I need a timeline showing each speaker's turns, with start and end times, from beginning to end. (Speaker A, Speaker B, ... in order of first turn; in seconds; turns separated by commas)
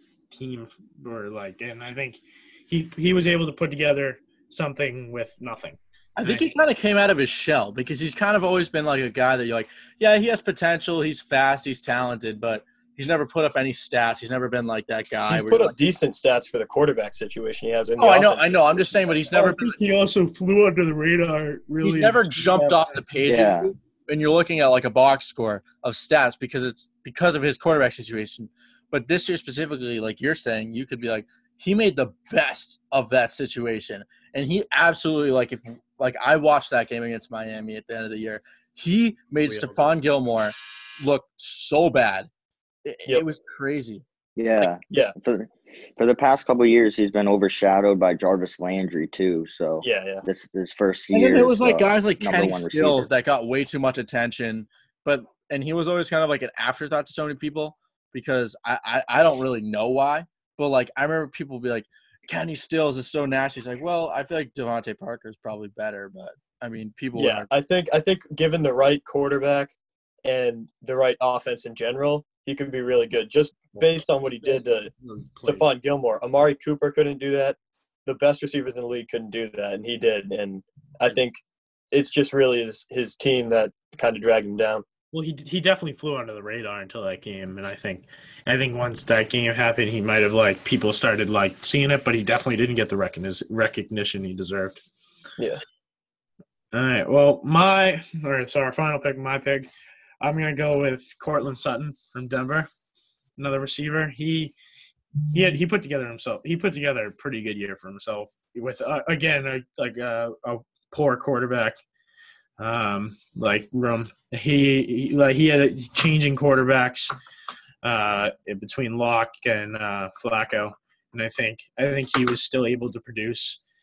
Speaker A: 0.3-6.5, Speaker B: 6.2-15.8, Speaker C: 15.3-19.5, Speaker B: 18.0-19.9, Speaker A: 19.3-23.0, Speaker B: 21.8-42.3, Speaker D: 23.2-23.7, Speaker C: 39.5-39.8, Speaker B: 42.8-44.0, Speaker D: 44.4-53.1, Speaker C: 44.9-45.1, Speaker C: 49.8-50.2, Speaker B: 51.1-67.5, Speaker C: 67.1-69.7, Speaker C: 70.2-81.4, Speaker A: 73.8-75.7, Speaker C: 81.9-84.8, Speaker A: 85.1-94.8, Speaker A: 96.7-99.7, Speaker A: 100.2-102.7, Speaker A: 103.4-104.5, Speaker A: 105.3-111.8, Speaker A: 112.6-117.1, Speaker A: 117.8-123.6